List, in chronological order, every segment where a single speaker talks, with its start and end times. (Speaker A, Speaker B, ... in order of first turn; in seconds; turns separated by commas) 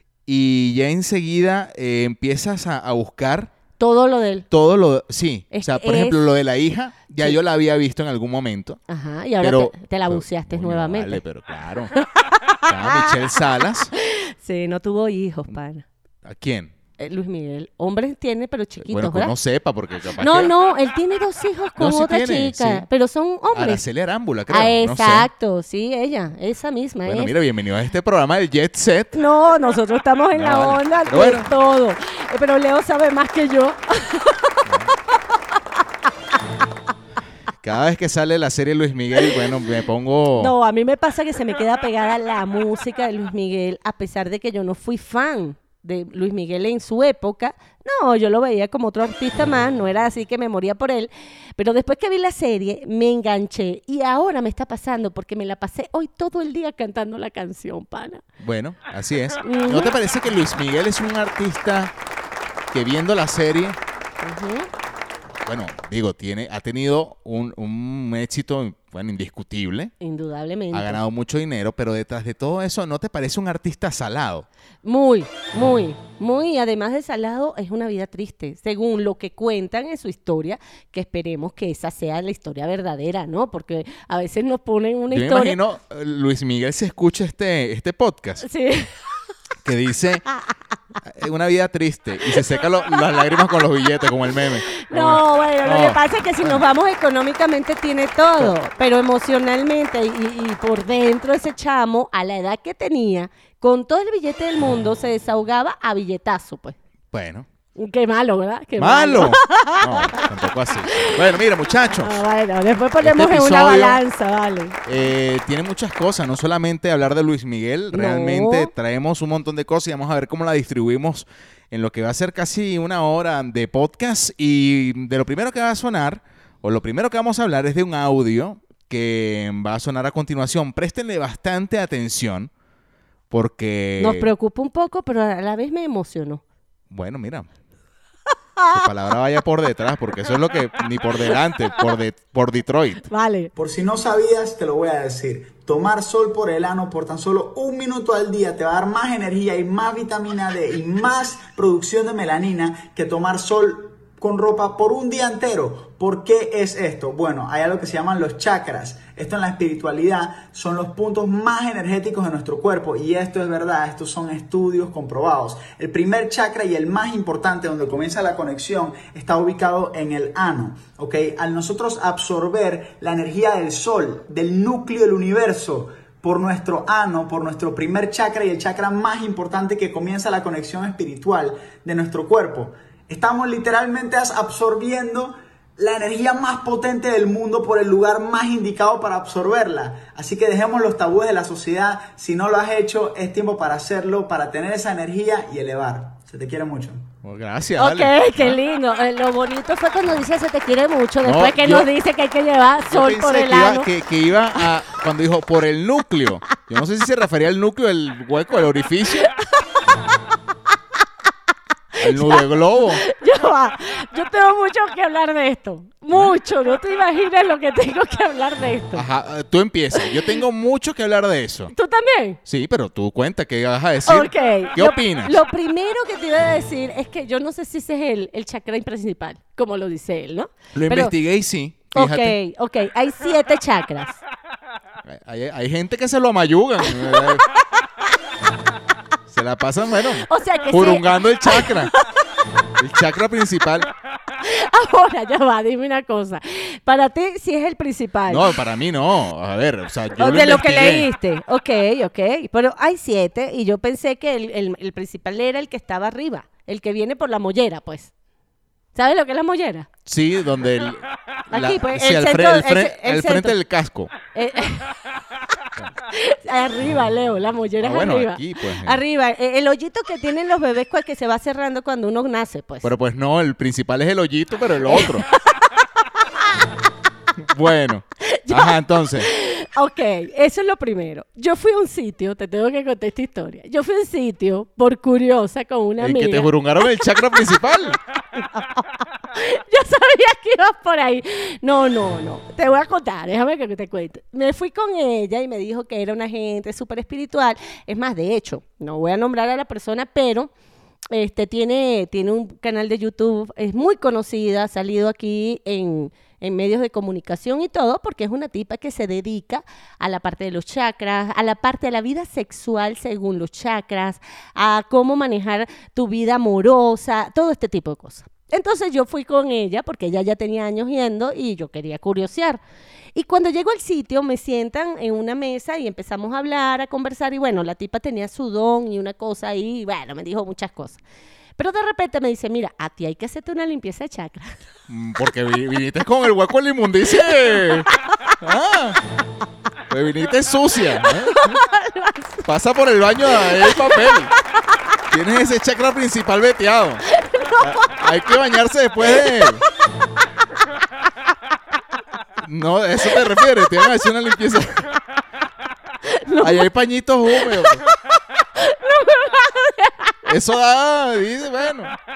Speaker A: 0.2-3.5, Speaker B: 3.8-4.5, Speaker A: 4.5-8.8, Speaker B: 5.5-6.2, Speaker B: 8.9-11.2, Speaker A: 9.4-11.9, Speaker B: 11.9-15.8, Speaker A: 12.7-13.9, Speaker A: 16.2-16.7, Speaker B: 17.0-19.3, Speaker A: 18.8-20.5, Speaker B: 20.2-23.8, Speaker A: 21.8-22.9, Speaker A: 23.5-25.3, Speaker B: 24.5-27.3, Speaker A: 27.0-29.2, Speaker B: 29.1-34.7, Speaker A: 30.3-31.5, Speaker A: 34.7-34.9, Speaker A: 37.6-40.5, Speaker B: 40.4-58.2, Speaker A: 58.4-61.9, Speaker B: 59.4-60.0, Speaker A: 62.7-63.8, Speaker B: 64.2-64.7, Speaker A: 65.5-69.9, Speaker B: 70.0-71.0, Speaker A: 70.7-74.5, Speaker B: 74.8-85.6, Speaker A: 85.1-88.5, Speaker B: 88.4-88.9, Speaker A: 89.6-90.2, Speaker A: 91.0-96.6, Speaker B: 94.7-106.8, Speaker A: 107.1-107.5, Speaker B: 107.8-110.2, Speaker A: 108.8-112.2, Speaker B: 110.9-111.2, Speaker B: 111.9-114.8, Speaker A: 113.0-114.0, Speaker A: 114.8-132.5, Speaker B: 117.9-118.7, Speaker A: 133.3-134.3, Speaker B: 134.0-136.4, Speaker A: 136.9-137.5, Speaker B: 138.6-138.9, Speaker A: 138.7-143.1, Speaker B: 143.0-143.5, Speaker C: 143.6-197.1, Speaker A: 197.2-198.6, Speaker B: 197.8-203.9, Speaker A: 201.2-201.9, Speaker A: 202.8-209.3, Speaker B: 212.0-219.1, Speaker A: 212.0-213.0, Speaker A: 218.9-221.7, Speaker B: 221.7-222.4, Speaker A: 222.4-225.4, Speaker B: 224.1-231.1, Speaker A: 230.7-232.3, Speaker B: 231.9-234.2, Speaker A: 235.0-237.4, Speaker B: 237.1-237.7, Speaker A: 239.3-241.9, Speaker B: 240.2-242.1, Speaker A: 242.8-243.9, Speaker B: 244.4-248.5, Speaker A: 248.3-251.1, Speaker B: 250.2-258.1, Speaker B: 258.9-259.9, Speaker A: 260.1-264.1, Speaker B: 261.5-263.6, Speaker B: 264.3-264.9, Speaker B: 266.1-272.9, Speaker A: 267.8-269.0, Speaker A: 272.8-275.2, Speaker B: 274.9-275.2, Speaker A: 277.4-279.3, Speaker B: 278.2-286.5, Speaker A: 286.0-288.0, Speaker B: 288.4-300.5, Speaker B: 301.1-322.6, Speaker B: 323.1-331.0, Speaker B: 331.6-334.6, Speaker A: 334.9-337.9, Speaker A: 338.4-339.0, Speaker A: 339.9-341.6, Speaker B: 341.2-342.4, Speaker A: 342.4-344.3, Speaker B: 343.5-344.2, Speaker A: 345.1-347.0, Speaker B: 347.1-347.7, Speaker A: 347.6-349.6, Speaker B: 349.2-349.5, Speaker A: 352.4-354.9, Speaker B: 356.1-356.7, Speaker A: 356.4-357.8, Speaker B: 357.6-357.8, Speaker B: 358.6-360.1, Speaker A: 360.2-361.9